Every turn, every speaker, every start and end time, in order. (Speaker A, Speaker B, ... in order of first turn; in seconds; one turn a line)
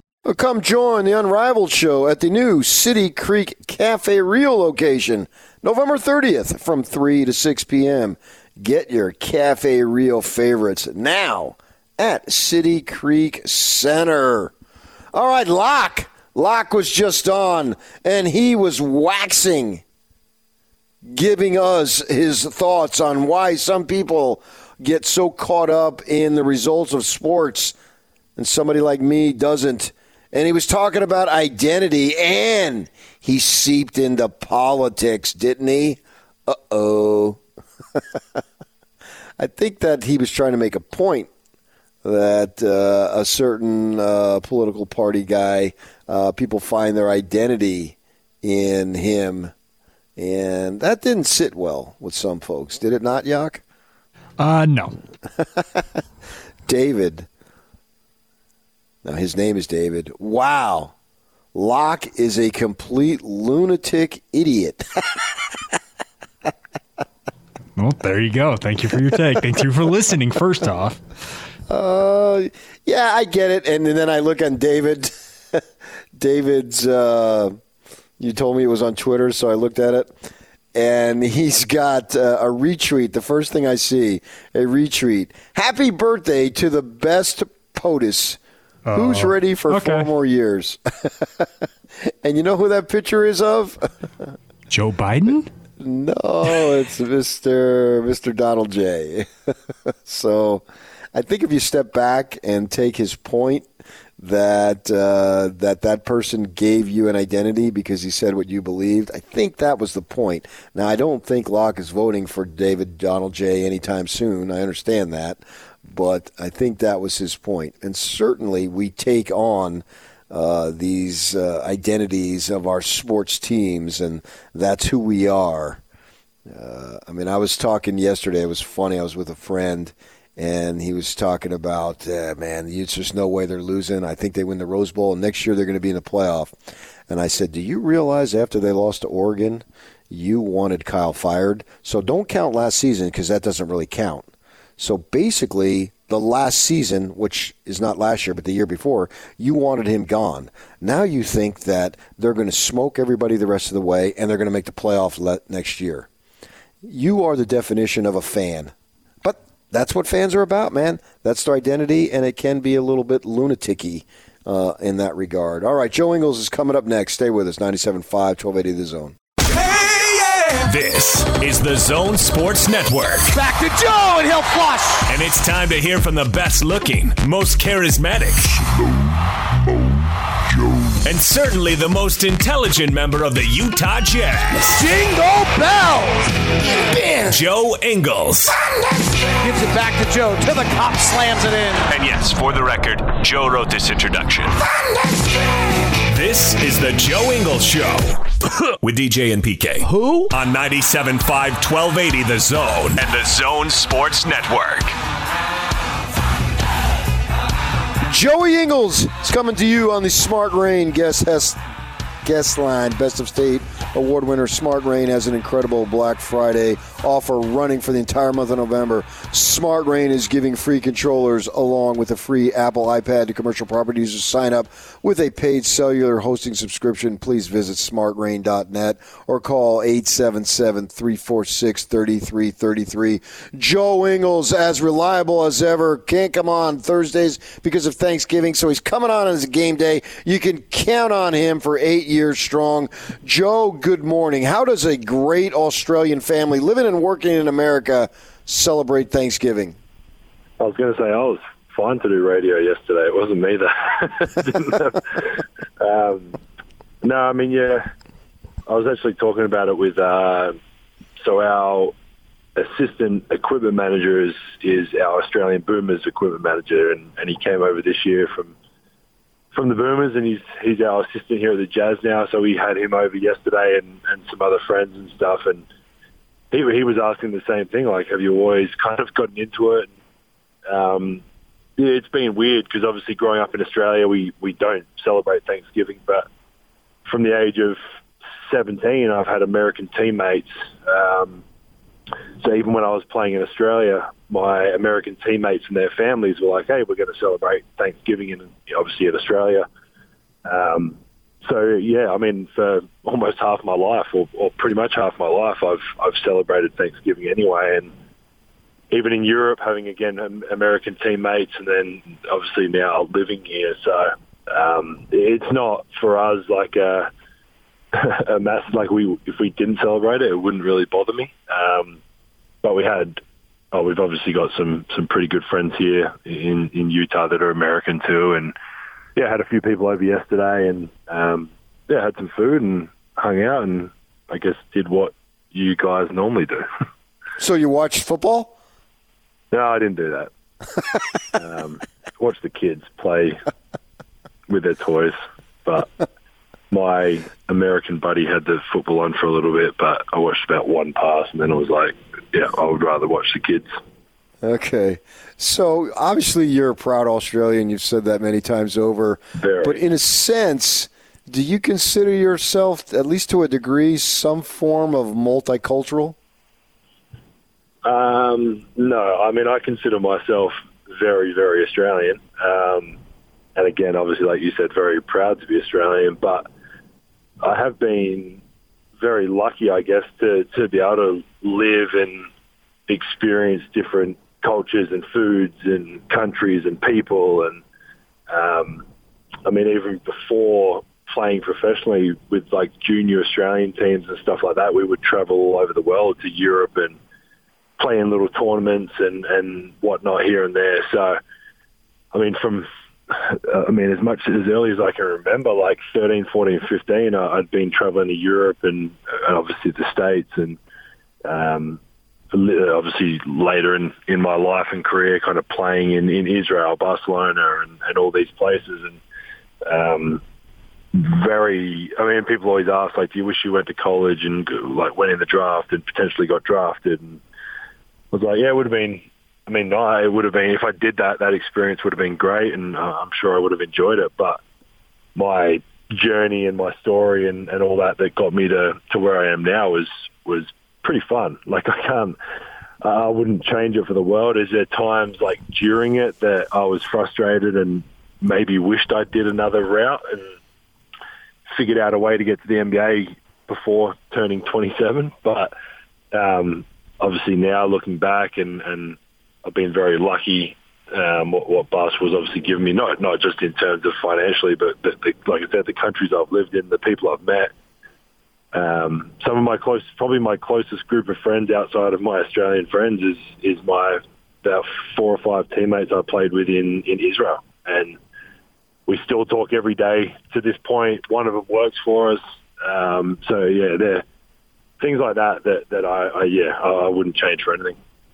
Speaker A: 0.2-14.5
Speaker A: 15.1-19.8
Speaker A: 21.0-27.7
Speaker A: 28.4-37.4
Speaker A: 39.4-41.3
Speaker A: 42.0-49.5
Speaker A: 50.2-53.6
Speaker B: 54.4-55.0
Speaker A: 56.7-57.3
Speaker A: 59.0-60.9
Speaker A: 61.5-64.8
Speaker B: 67.8-71.0
Speaker A: 71.7-75.6
Speaker A: 76.2-77.5
Speaker A: 78.2-88.4
Speaker B: 88.9-90.1
Speaker A: 88.9-91.5
Speaker A: 92.2-93.9
Speaker B: 94.7-95.5
Speaker A: 95.8-99.3
Speaker A: 100.0-103.7
Speaker A: 104.2-125.8
Speaker A: 126.5-136.5
Speaker A: 137.1-144.3
Speaker A: 144.8-156.1
Speaker A: 156.8-158.7
Speaker A: 159.2-169.1
Speaker C: 169.7-173.3
Speaker D: 173.3-175.1
Speaker C: 175.1-178.7
Speaker C: 181.0-184.7
Speaker D: 184.6-187.4
Speaker C: 187.2-188.5
Speaker D: 189.4-191.9
Speaker C: 191.9-194.6
Speaker C: 196.1-198.2
Speaker C: 198.8-204.9
Speaker A: 208.1-211.6
Speaker A: 212.2-249.8
Speaker E: 250.6-256.4
Speaker E: 257.0-257.8
Speaker E: 258.7-260.6
Speaker E: 261.2-261.9
Speaker E: 262.6-268.5
Speaker E: 269.5-275.6
Speaker E: 276.5-279.9
Speaker E: 280.7-281.2
Speaker E: 281.8-286.3
Speaker E: 287.1-287.8
Speaker E: 288.4-291.4
Speaker E: 292.4-299.6
Speaker E: 300.4-307.9
Speaker E: 308.9-317.1
Speaker E: 317.9-322.0
Speaker E: 322.6-323.2
Speaker E: 323.7-328.5
Speaker E: 329.1-336.6
Speaker A: 337.4-338.5
Speaker E: 339.5-340.3
Speaker E: 341.4-343.4
Speaker E: 344.5-345.9
Speaker E: 346.7-353.8
Speaker A: 354.4-366.1
Speaker E: 359.4-359.8
Speaker E: 367.8-372.9
Speaker E: 373.6-376.4
Speaker E: 377.4-378.4
Speaker E: 379.0-382.3
Speaker E: 382.9-387.6
Speaker E: 388.3-388.8
Speaker E: 389.4-397.0
Speaker E: 397.8-401.2
Speaker E: 402.1-410.6
Speaker E: 411.2-411.8
Speaker E: 412.3-419.0
Speaker E: 419.6-420.2
Speaker E: 420.9-427.2
Speaker E: 428.1-434.4
Speaker E: 435.1-442.1
Speaker E: 442.8-450.3
Speaker E: 451.5-455.5
Speaker E: 456.1-467.5
Speaker E: 468.5-478.0
Speaker E: 478.9-484.0
Speaker E: 484.8-487.8